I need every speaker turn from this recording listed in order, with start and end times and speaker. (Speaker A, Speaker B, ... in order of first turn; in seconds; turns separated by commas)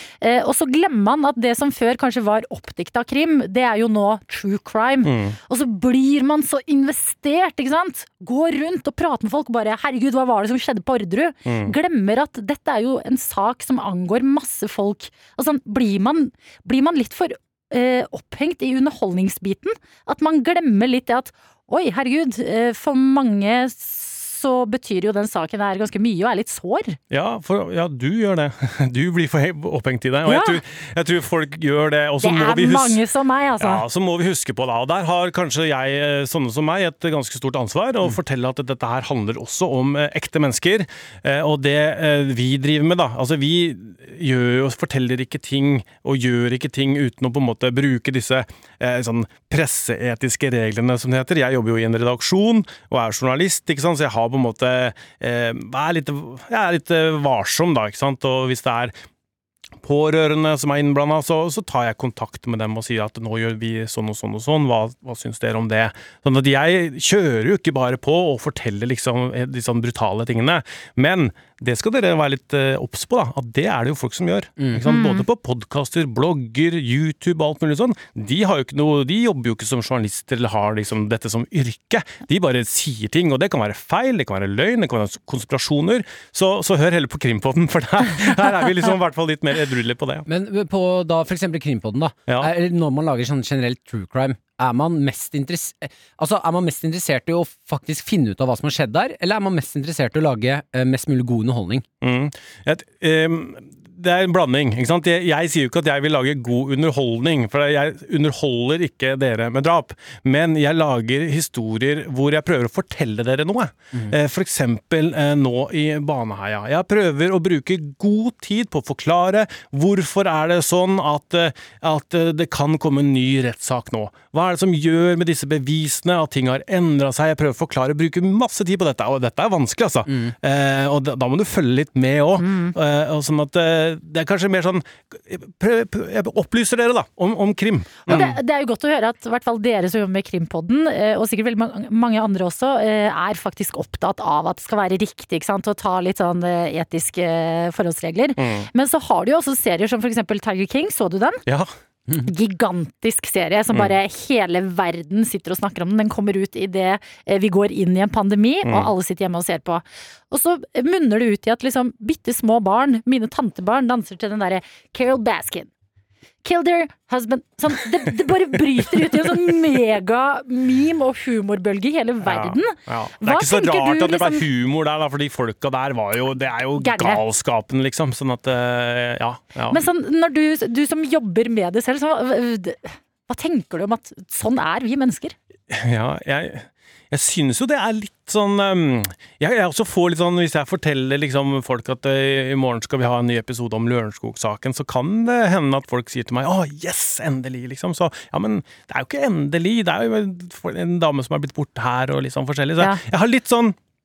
Speaker A: 0.2-27.0, Speaker B: 5.0-5.4, Speaker B: 11.4-11.7, Speaker B: 27.1-33.0, Speaker A: 30.3-30.6, Speaker A: 32.2-33.8, Speaker B: 33.6-58.9, Speaker B: 59.8-90.3, Speaker A: 74.8-75.2, Speaker C: 90.3-101.8, Speaker B: 102.0-138.4, Speaker C: 130.1-130.3, Speaker A: 132.4-132.7, Speaker A: 138.1-151.4, Speaker B: 148.4-148.7, Speaker A: 152.2-165.7, Speaker B: 158.6-158.9, Speaker A: 166.4-174.4, Speaker B: 172.2-179.8, Speaker A: 176.8-177.2, Speaker A: 179.7-185.4, Speaker B: 185.7-203.8